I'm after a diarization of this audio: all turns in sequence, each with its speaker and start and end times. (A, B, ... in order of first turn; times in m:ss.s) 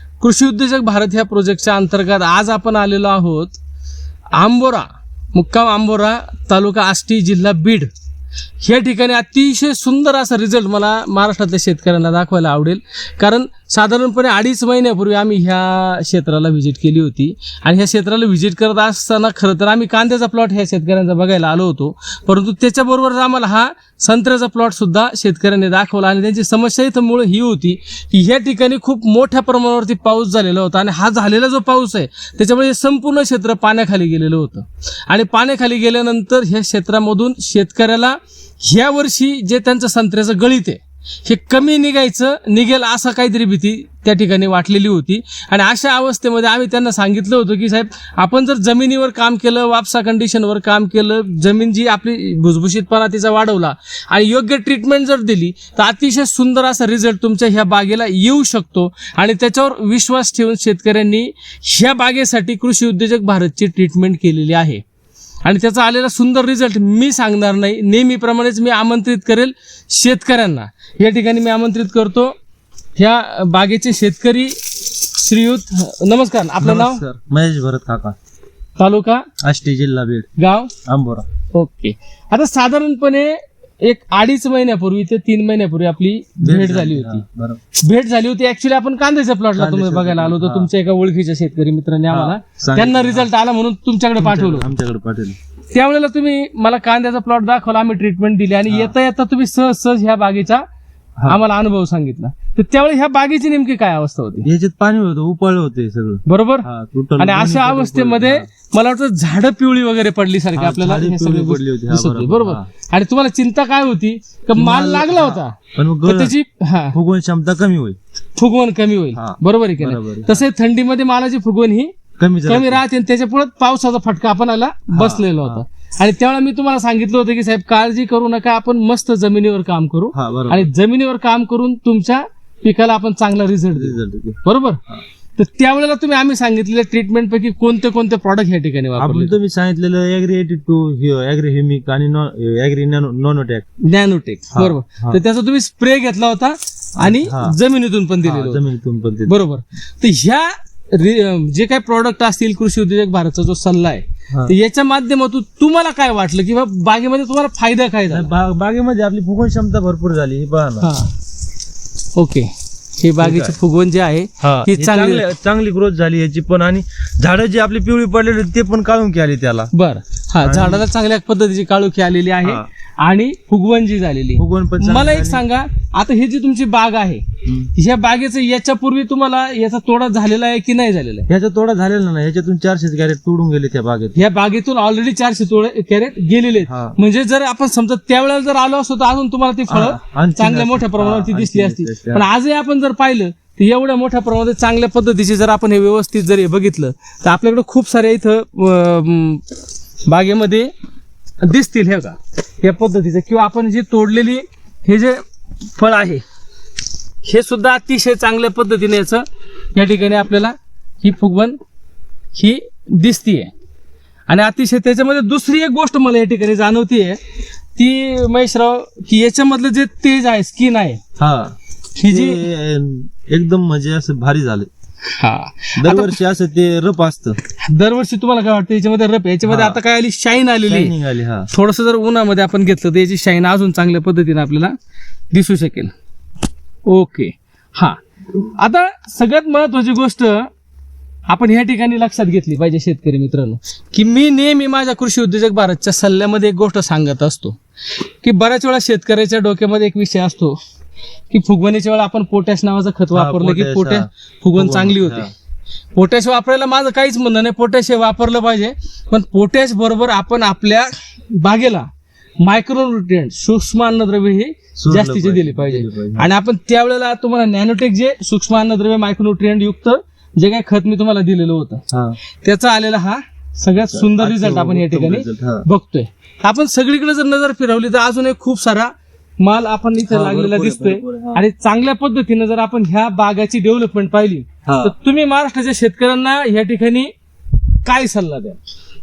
0:00.2-0:03.6 A
0:04.4-0:07.9 A
0:08.6-1:04.8 A
1:05.4-1:12.3 A
1:13.0-1:17.0 A
1:16.6-1:18.2 B
1:18.8-1:19.3 A
1:19.4-1:20.3 B
1:20.4-1:20.7 A
1:20.8-1:21.2 B
1:21.5-1:27.2 A
1:26.4-1:27.6 B
1:27.7-1:34.7 A
1:29.6-1:30.7 B
1:32.1-1:33.3 B
1:34.2-1:35.4 B
1:35.7-1:40.6 A
1:38.7-1:38.9 B
1:41.3-1:44.5 A
1:44.4-1:48.5 B
1:46.2-1:46.7 A
1:47.2-1:57.0 A
1:50.5-1:52.7 B
1:54.5-1:56.3 B
1:56.9-1:58.0 B
1:58.4-2:01.9 A
1:59.1-2:00.4 B
2:02.2-2:02.8 B
2:02.4-2:14.8 A
2:04.9-2:05.6 B
2:10.1-2:10.7 B
2:13.7-2:14.4 B
2:15.4-2:19.3 A
2:19.0-2:23.7 B
2:23.8-2:28.6 A
2:24.5-2:25.2 B
2:27.0-2:27.6 B
2:28.2-2:29.4 B
2:29.2-2:38.3 A
2:38.1-2:40.9 B
2:40.8-2:41.1 A
2:42.2-2:45.3 A
2:43.2-2:43.6 B
2:44.4-2:49.7 B
2:49.7-3:01.3 A
2:50.4-2:50.8 B
2:54.4-2:55.4 B
2:57.4-2:57.7 B
3:01.3-3:04.2 B
3:04.1-3:19.5 A
3:06.6-3:07.0 B
3:09.7-3:12.3 B
3:20.1-3:20.7 A
3:21.4-3:25.2 A
3:25.8-3:26.2 A
3:27.2-3:31.6 A
3:32.3-3:33.5 A
3:34.3-3:37.2 A
3:37.8-3:41.0 A
3:41.2-3:44.7 B
3:42.0-3:42.4 A
3:45.1-3:46.2 A
3:45.8-3:47.4 B
3:47.6-3:50.9 A
3:49.5-3:49.8 B
3:50.6-3:51.5 B
3:51.5-3:54.7 A
3:55.3-3:55.9 A
3:56.8-4:00.5 A
4:01.3-4:10.6 A
4:11.3-4:15.3 A
4:13.1-4:15.3 B
4:15.9-4:21.9 A
4:22.4-4:31.8 A
4:24.8-4:26.3 B
4:31.9-4:32.2 B
4:32.4-4:47.1 A
4:33.8-4:35.6 B
4:40.0-4:41.4 B
4:44.6-4:44.9 B
4:47.8-4:48.6 A